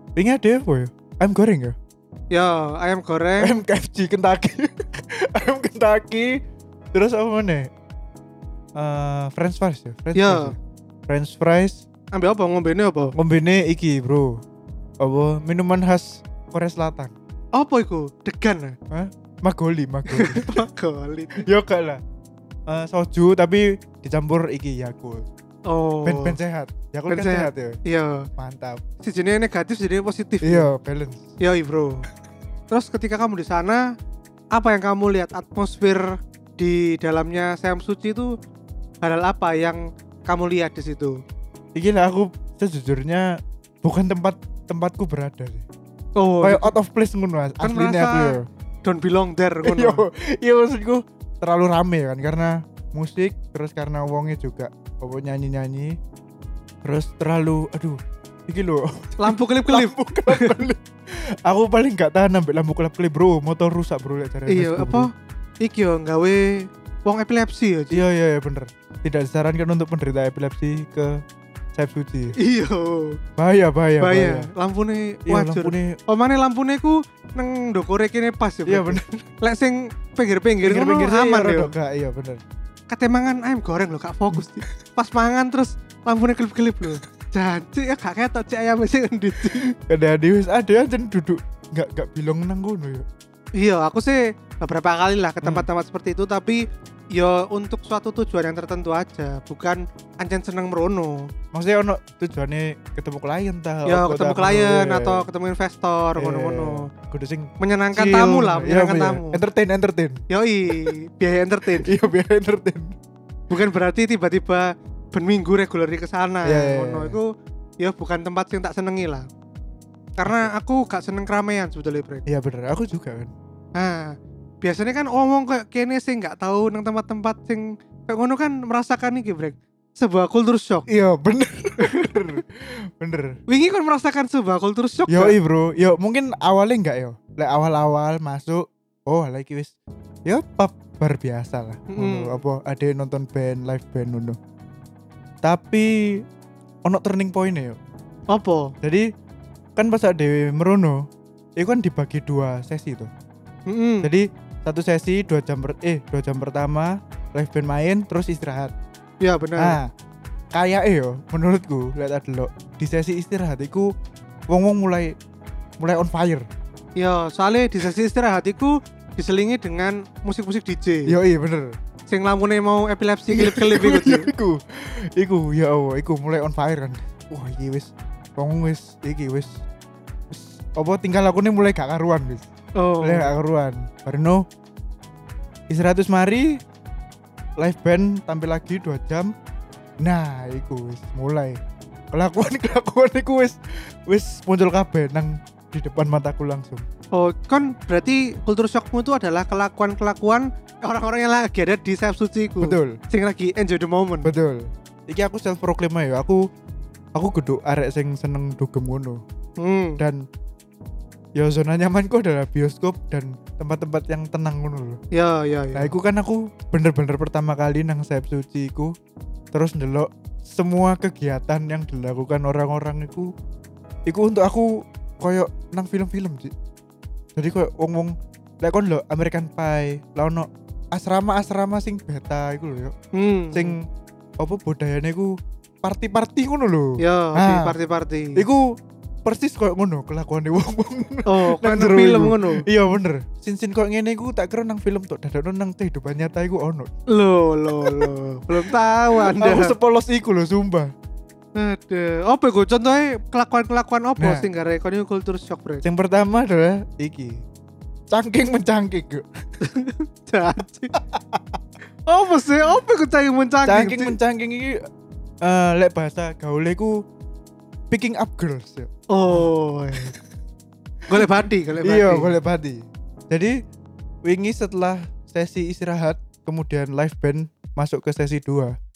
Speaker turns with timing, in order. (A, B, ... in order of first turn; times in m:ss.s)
0:00.2-0:01.8 A
0:02.3-0:03.6 B
0:03.4-0:06.4 A
0:06.9-0:07.7 A
0:08.8-0:10.6 A
0:10.1-0:10.5 B
0:11.1-0:11.8 A
0:12.1-0:13.1 B
0:13.1-0:14.4 A
0:15.0-0:17.1 A
0:17.5-0:18.8 B
0:18.9-0:20.6 A
0:20.1-0:21.4 B
0:21.3-0:22.0 A
0:22.7-0:25.3 A
0:25.7-0:26.4 B
0:26.0-0:27.8 A
0:27.1-0:28.3 B
0:28.4-0:28.8 A
0:29.0-0:30.7 B
0:30.4-0:31.2 A
0:31.4-0:32.1 B
0:32.7-0:33.8 B
0:34.5-0:38.3 B
0:39.0-0:41.2 B
0:41.7-0:45.6 A
0:46.2-0:46.7 B
0:46.4-0:48.4 A
0:47.6-0:50.0 B
0:49.6-0:56.0 A
0:56.8-1:05.1 A
0:59.2-1:00.6 B
1:04.5-1:05.1 B
1:05.6-1:08.0 B
1:07.9-1:11.2 A
1:11.7-1:12.4 A
1:12.4-1:13.2 B
1:13.4-1:14.5 A
1:14.0-1:21.7 B
1:15.3-1:16.0 A
1:18.7-1:19.2 A
1:20.6-1:22.4 A
1:22.9-1:29.7 B
1:29.4-1:33.0 A
1:33.6-1:36.6 B
1:35.4-1:35.7 A
1:37.2-1:41.3 B
1:41.5-1:45.2 A
1:43.8-1:46.9 B
1:46.2-1:50.2 A
1:47.6-1:49.4 B
1:50.3-1:51.9 B
1:51.8-1:53.0 A
1:53.5-1:59.3 B
1:56.4-1:57.2 A
2:00.2-2:02.2 B
2:00.2-2:00.5 A
2:02.3-2:03.3 A
2:03.8-2:10.9 B
2:10.9-2:13.4 A
2:13.5-2:15.4 B
2:15.1-2:19.7 A
2:20.2-2:24.4 A
2:21.9-2:22.4 B
2:25.4-2:26.2 A
2:26.8-2:27.8 A
2:28.3-2:28.7 B
2:28.8-2:29.1 A
2:29.8-2:31.0 A
2:31.6-2:33.1 A
2:33.7-2:34.1 B
2:34.0-2:38.7 A
2:39.2-2:39.8 B
2:39.6-2:39.9 A
2:40.5-2:43.9 A
2:44.5-2:45.1 A
2:45.8-2:46.5 A
2:47.0-2:51.1 B
2:51.1-2:51.7 A
2:52.1-2:54.3 B
2:53.3-2:59.5 A
3:00.3-3:02.5 A
3:02.8-3:03.3 B
3:03.0-3:04.4 A
3:05.7-3:06.6 A
3:07.6-3:09.3 A
3:10.0-3:11.6 A
3:12.1-3:16.8 A
3:17.2-3:24.3 B
3:22.6-3:23.0 A
3:24.2-3:26.4 A
3:27.1-3:29.2 A
3:29.6-3:30.0 B
3:30.0-3:30.2 A
3:31.4-3:35.0 A
3:35.1-3:35.9 B
3:35.8-3:38.9 A
3:39.5-3:43.3 A
3:44.1-3:46.5 A
3:47.4-3:52.9 A
3:53.1-3:53.7 B
3:53.5-3:53.8 A
3:54.4-3:55.3 A
3:55.8-3:57.7 A
3:57.0-3:58.4 B
3:58.4-3:58.6 A
3:59.2-4:06.9 A
4:01.3-4:02.6 B
4:07.1-4:09.8 B
4:07.7-4:10.9 A
4:11.6-4:15.8 B
4:14.2-4:14.4 A
4:15.8-4:17.4 A
4:18.1-4:19.3 A
4:19.6-4:20.9 B
4:21.0-4:21.6 A
4:22.0-4:24.2 B
4:23.6-4:24.8 A
4:25.4-4:27.0 A
4:27.9-4:30.2 A
4:29.1-4:30.2 B
4:31.1-4:32.3 B
4:31.1-4:33.6 A
4:34.2-4:38.7 A